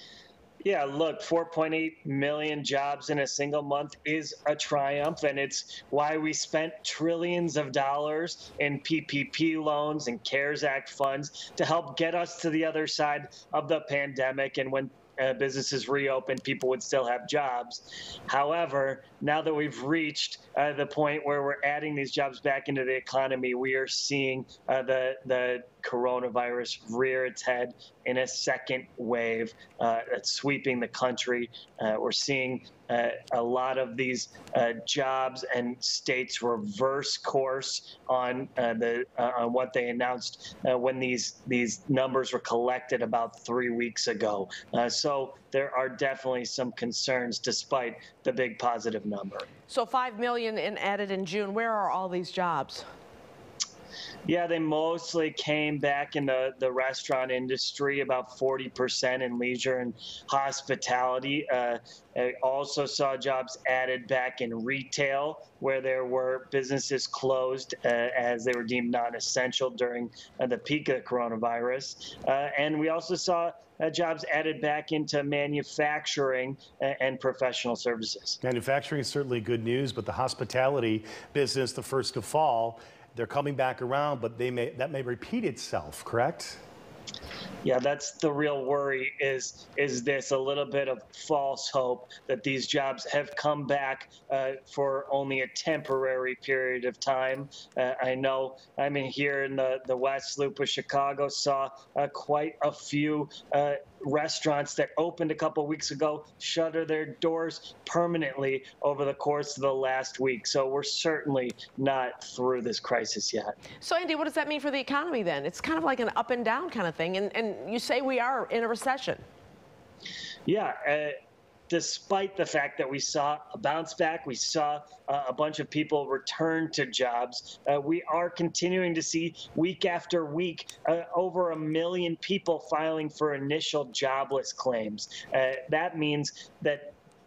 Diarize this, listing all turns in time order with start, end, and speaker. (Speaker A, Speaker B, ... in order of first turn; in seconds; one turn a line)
Speaker A: 0.6-49.5
Speaker B: 49.7-52.8
Speaker A: 54.3-78.4
Speaker C: 78.4-86.6
Speaker A: 87.6-113.6
Speaker B: 113.8-119.2
Speaker A: 120.5-121.1
Speaker A: 121.7-136.9